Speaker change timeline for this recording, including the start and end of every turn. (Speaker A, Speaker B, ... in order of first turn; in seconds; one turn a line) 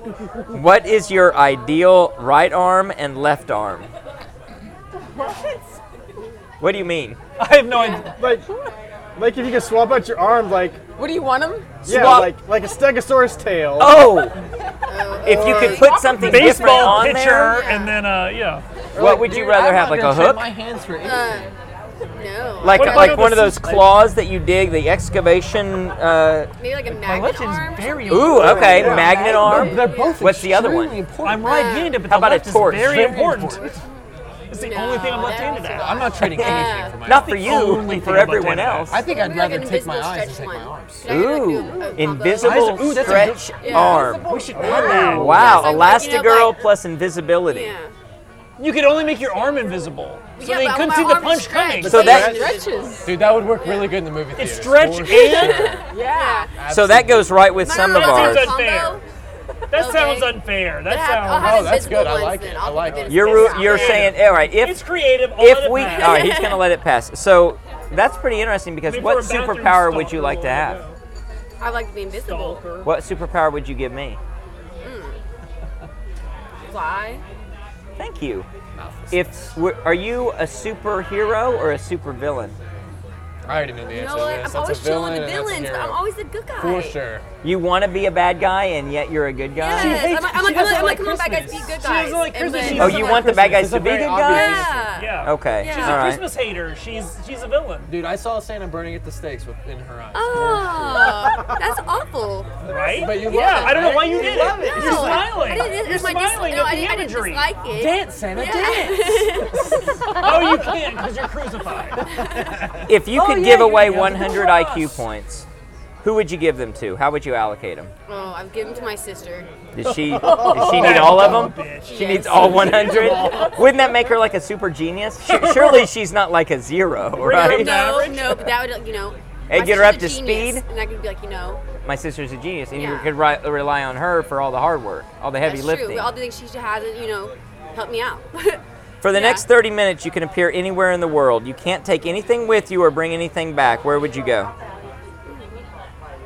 Speaker A: 0.5-3.9
Speaker A: 6.6-7.2
Speaker B: 7.4-8.2
Speaker C: 7.7-8.5
Speaker D: 8.2-8.5
Speaker D: 9.2-10.8
Speaker E: 11.0-11.8
Speaker D: 11.8-14.1
Speaker A: 11.9-12.3
Speaker A: 13.8-14.3
Speaker C: 14.9-18.0
Speaker A: 15.2-17.6
Speaker E: 15.4-16.7
Speaker B: 16.1-18.6
Speaker A: 19.0-20.4
Speaker F: 19.0-21.5
Speaker C: 21.0-21.5
Speaker C: 22.1-23.3
Speaker A: 22.6-26.5
Speaker B: 22.8-23.8
Speaker F: 23.1-23.8
Speaker C: 26.6-30.3
Speaker B: 26.9-28.8
Speaker F: 27.8-31.6
Speaker A: 28.1-31.0
Speaker D: 28.4-29.1
Speaker B: 31.2-33.7
Speaker C: 31.4-32.0
Speaker A: 32.0-33.1
Speaker F: 32.7-33.8
Speaker B: 34.5-36.6
Speaker C: 34.6-37.1
Speaker F: 35.7-41.1
Speaker A: 36.5-39.0
Speaker B: 37.1-39.0
Speaker C: 39.0-46.7
Speaker A: 41.1-44.3
Speaker F: 42.4-45.7
Speaker B: 42.6-43.3
Speaker E: 43.7-45.1
Speaker D: 44.6-45.1
Speaker B: 44.6-45.8
Speaker A: 45.1-47.7
Speaker C: 47.5-47.9
Speaker B: 48.6-52.4
Speaker C: 50.4-54.0
Speaker D: 51.9-52.5
Speaker A: 51.9-52.4
Speaker F: 52.0-52.5
Speaker E: 52.6-53.0
Speaker F: 53.0-55.9
Speaker B: 54.4-55.8
Speaker E: 55.9-56.5
Speaker C: 56.0-56.5
Speaker F: 56.6-57.7
Speaker A: 56.7-58.6
Speaker C: 57.6-59.0
Speaker B: 57.7-59.0
Speaker B: 59.7-61.8
Speaker C: 59.7-64.2
Speaker F: 61.3-64.2
Speaker A: 63.1-64.8
Speaker B: 64.5-66.5
Speaker A: 65.4-70.8
Speaker C: 65.8-66.7
Speaker B: 68.9-71.0
Speaker C: 71.6-72.7
Speaker B: 72.1-72.9
Speaker A: 72.8-74.2
Speaker C: 74.8-75.2
Speaker C: 76.7-77.2
Speaker A: 78.0-78.5
Speaker F: 78.8-79.1
Speaker A: 79.1-82.6
Speaker F: 83.5-86.0
Speaker C: 83.9-87.0
Speaker F: 86.6-87.2
Speaker A: 87.4-90.1
Speaker C: 89.6-96.2
Speaker B: 89.7-93.5
Speaker F: 90.8-91.3
Speaker F: 92.6-94.9
Speaker A: 92.6-96.2
Speaker B: 95.0-97.9
Speaker F: 97.9-101.5
Speaker C: 100.1-102.5
Speaker B: 102.7-107.5
Speaker F: 102.8-105.5
Speaker C: 103.2-104.0
Speaker C: 104.6-110.7
Speaker F: 107.7-110.3
Speaker B: 110.1-112.0
Speaker C: 112.0-112.5
Speaker A: 112.9-115.5
Speaker B: 113.1-115.0
Speaker A: 116.0-117.9
Speaker C: 118.1-119.5
Speaker A: 119.8-127.9
Speaker C: 120.3-121.3
Speaker B: 120.4-123.6
Speaker C: 121.9-123.7
Speaker F: 122.8-123.5
Speaker B: 125.2-125.9
Speaker B: 127.2-128.5
Speaker C: 127.2-131.6
Speaker A: 129.5-130.7
Speaker A: 131.8-136.1
Speaker C: 132.7-133.1
Speaker C: 135.4-139.5
Speaker A: 139.0-144.5
Speaker C: 145.2-145.6